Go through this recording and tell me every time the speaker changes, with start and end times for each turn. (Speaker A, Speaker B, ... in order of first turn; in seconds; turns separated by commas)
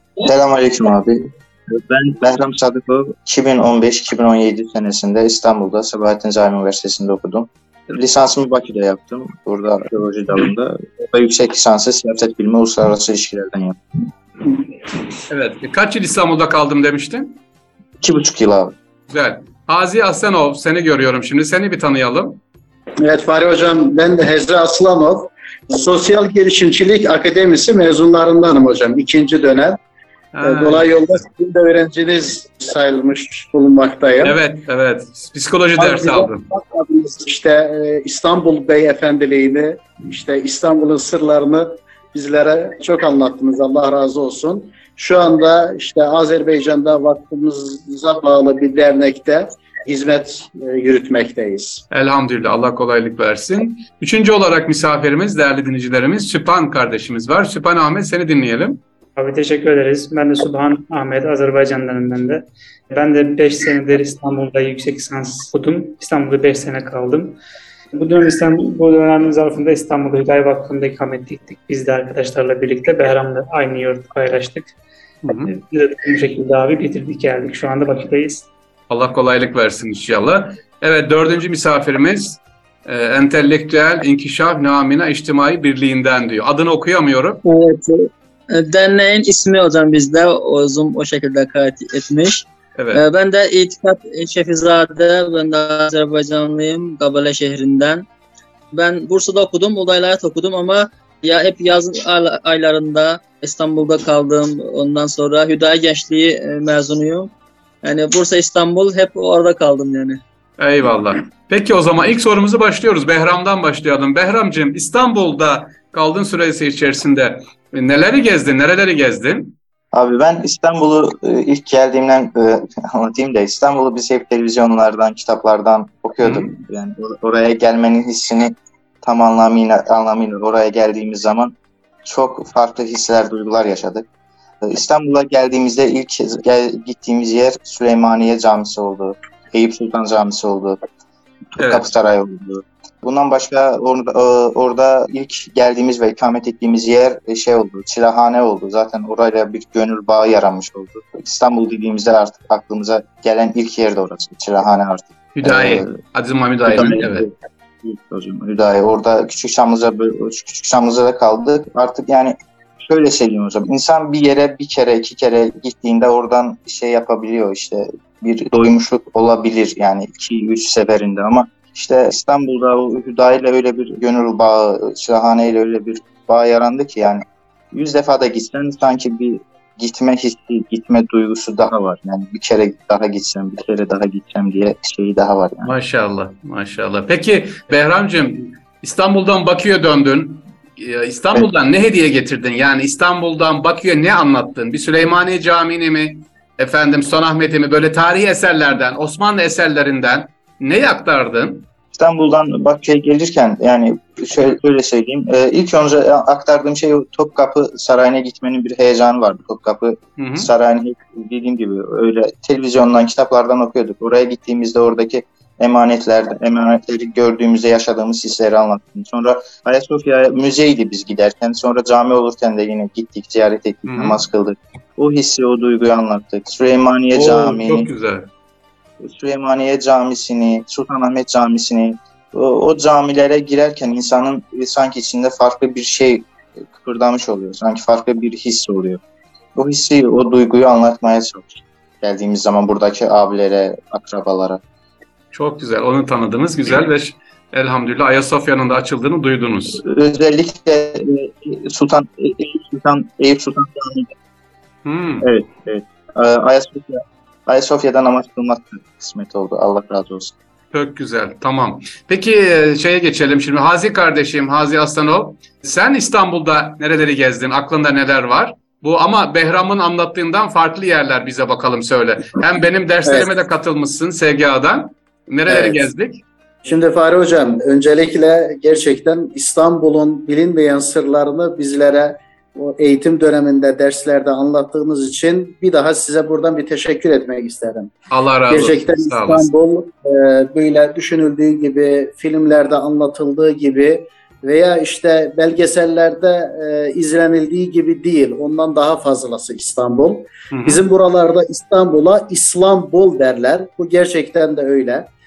Speaker A: 0.2-1.2, Speaker A: 1.9-13.8, Speaker B: 15.3-17.4, Speaker A: 18.0-18.7, Speaker B: 19.1-22.4, Speaker C: 23.0-29.8, Speaker B: 30.3-30.9, Speaker C: 30.4-34.4, Speaker B: 34.2-36.4, Speaker C: 35.8-51.8, Speaker B: 51.9-58.8, Speaker D: 59.2-67.4, Speaker D: 68.0-74.7, Speaker B: 75.2-75.5, Speaker D: 75.4-78.5, Speaker B: 78.9-87.4, Speaker E: 87.5-98.1, Speaker B: 92.8-93.0, Speaker E: 98.7-107.3, Speaker E: 107.8-110.2, Speaker B: 110.6-119.6, Speaker A: 119.9-131.5, Speaker B: 126.2-126.5, Speaker A: 132.1-134.1, Speaker A: 134.6-140.8, Speaker A: 141.6-155.9, Speaker B: 141.6-141.9, Speaker B: 155.4-157.3, Speaker A: 156.6-185.7, Speaker B: 185.6-201.7, Speaker A: 202.0-227.9, Speaker B: 210.2-210.5, Speaker B: 223.9-224.2, Speaker B: 227.1-228.3, Speaker A: 229.0-239.0, Speaker A: 239.6-244.6, Speaker B: 245.3-249.8, Speaker A: 249.8-254.1, Speaker B: 254.8-255.3, Speaker A: 255.2-260.3, Speaker B: 260.7-276.2, Speaker C: 273.1-273.3, Speaker C: 275.5-275.9, Speaker C: 276.6-287.9, Speaker B: 288.1-289.5, Speaker C: 288.5-305.1, Speaker B: 300.5-300.8